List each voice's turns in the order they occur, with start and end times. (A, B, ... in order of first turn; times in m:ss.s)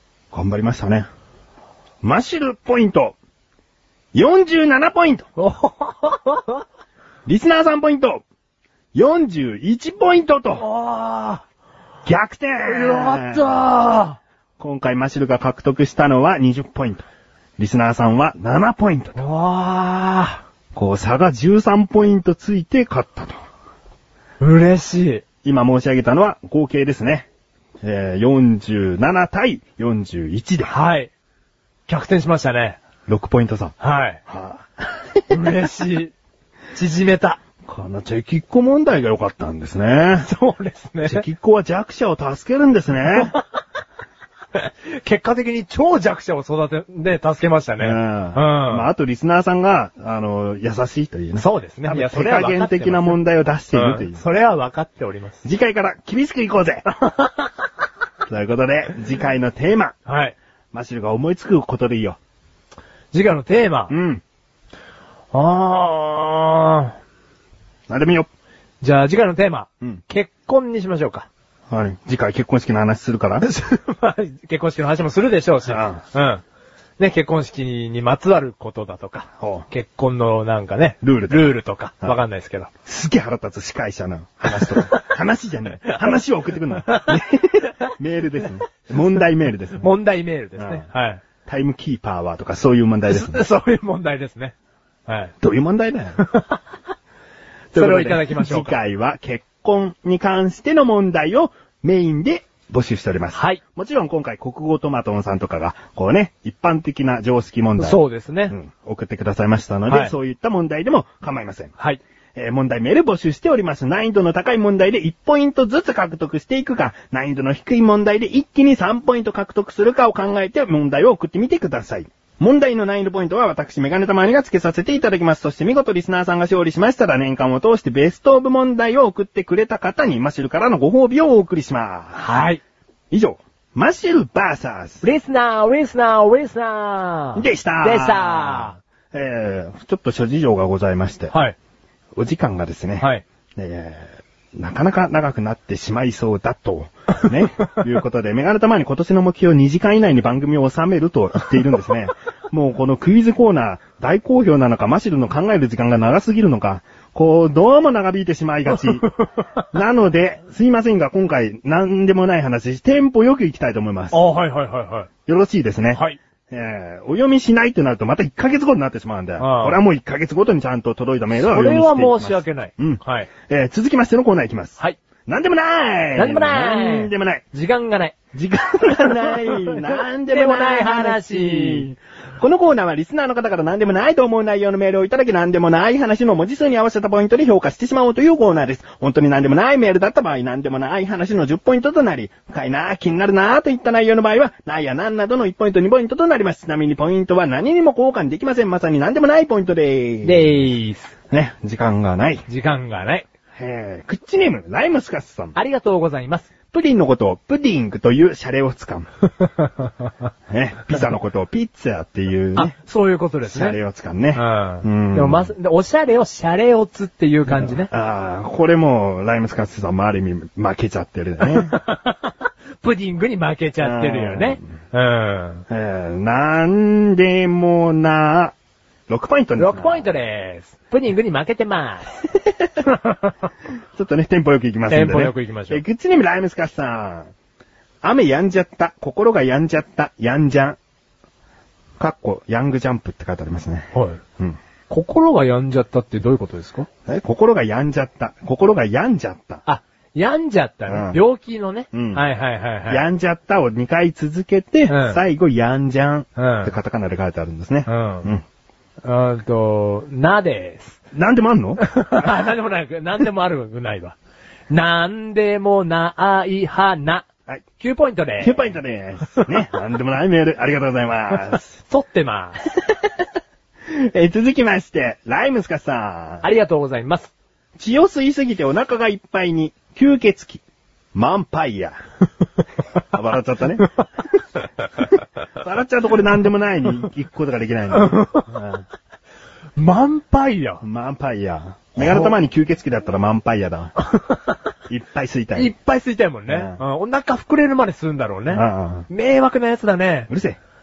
0:00.3-0:01.0 A
0:02.0-0:03.2 A
0:04.1-0:05.3 A
0:05.4-0:06.6 B
0:07.2-0:08.2 A
0:08.9-0:10.6 A
0:10.6-0:11.4 B
0:12.0-0:13.6 A
0:12.6-0:14.2 B
0:14.6-0:17.0 A
0:17.6-0:19.2 A
0:19.2-0:20.4 B
0:20.7-0:23.4 A
0:24.4-0:25.2 B
0:25.4-0:27.3 A
0:27.8-0:30.7 A
0:30.7-0:31.1 B
0:31.9-0:32.8 B
0:33.1-0:33.7 A
0:33.8-0:34.2 B
0:34.3-0:35.4 A
0:35.3-0:36.1 B
0:36.7-0:37.4 B
0:37.6-0:40.3 A
0:40.2-0:41.2 B
0:41.0-0:43.4 A
0:44.6-0:48.9 B
0:47.8-0:54.2 A
0:51.4-0:53.2 B
0:53.7-0:55.4 B
0:55.4-0:57.1 A
0:58.3-0:59.9 A
1:00.0-1:00.4 B
1:00.7-1:02.2 A
1:03.1-1:03.9 B
1:03.9-1:04.2 A
1:05.3-1:07.0 B
1:07.9-1:08.3 A
1:08.8-1:11.3 B
1:11.7-1:13.4 A
1:13.4-1:16.4 B
1:15.6-1:16.0 A
1:17.0-1:22.7 B
1:19.4-1:19.6 A
1:21.0-1:21.5 A
1:22.8-1:29.9 A
1:24.5-1:25.1 B
1:26.8-1:27.9 B
1:29.8-1:31.2 B
1:30.6-1:30.8 A
1:31.4-1:33.4 A
1:33.1-1:34.5 B
1:35.1-1:35.3 B
1:35.4-1:36.2 A
1:36.2-1:36.6 B
1:37.7-1:51.7 A
1:37.7-1:38.7 B
1:43.3-1:43.6 B
1:47.8-1:48.6 B
1:52.4-2:12.4 A
2:12.1-2:12.6 B
2:13.1-2:15.0 A
2:15.0-2:18.8 B
2:17.4-2:21.3 A
2:22.2-2:39.1 A
2:38.8-2:39.6 B
2:39.7-2:44.2 A
2:44.1-2:45.1 B
2:45.2-2:57.4 A
2:45.9-2:46.2 B
2:49.4-2:49.8 B
2:51.3-2:53.3 B
2:56.2-2:58.2 B
2:58.3-3:20.7 A
2:59.2-3:01.9 B
3:20.2-3:21.1 B
3:21.3-3:22.4 A
3:22.5-3:23.2 B
3:23.6-3:25.6 A
3:25.5-3:26.5 B
3:26.7-3:29.1 A
3:30.5-3:32.7 A
3:32.6-3:33.8 B
3:33.4-3:35.5 A
3:34.3-3:37.9 B
3:37.5-3:41.8 A
3:41.4-3:45.6 B
3:43.8-3:44.6 A
3:45.7-3:48.5 A
3:49.1-3:50.1 A
3:49.6-3:52.2 B
3:52.8-3:53.3 B
3:54.0-3:57.3 A
3:54.9-3:55.8 B
3:58.0-4:00.8 A
4:02.0-4:04.6 A
4:03.9-4:04.2 B
4:04.9-4:06.9 B
4:07.1-4:09.6 A
4:09.6-4:13.0 B
4:10.9-4:11.2 A
4:11.9-4:12.2 A
4:12.9-4:18.4 A
4:14.9-4:15.2 B
4:16.4-4:16.7 B
4:17.9-4:18.3 B
4:19.0-4:21.0 B
4:21.1-4:21.8 A
4:21.8-4:24.2 B
4:24.7-4:27.3 B
4:27.8-4:28.6 B
4:28.4-4:31.8 A
4:31.9-4:32.6 B
4:32.8-4:33.0 A
4:33.9-4:36.4 A
4:36.4-4:37.3 B
4:37.8-4:40.6 A
4:41.1-4:42.0 A
4:43.1-4:43.9 A
4:45.0-4:48.8 A
4:47.9-4:48.5 B
4:49.8-4:50.8 B
4:50.8-4:53.9 A
4:52.0-4:52.3 B
4:54.0-4:54.6 B
4:54.9-4:55.7 A
4:55.5-5:00.3 B
4:56.5-4:56.8 A
4:58.5-4:59.1 A
5:00.3-5:00.6 A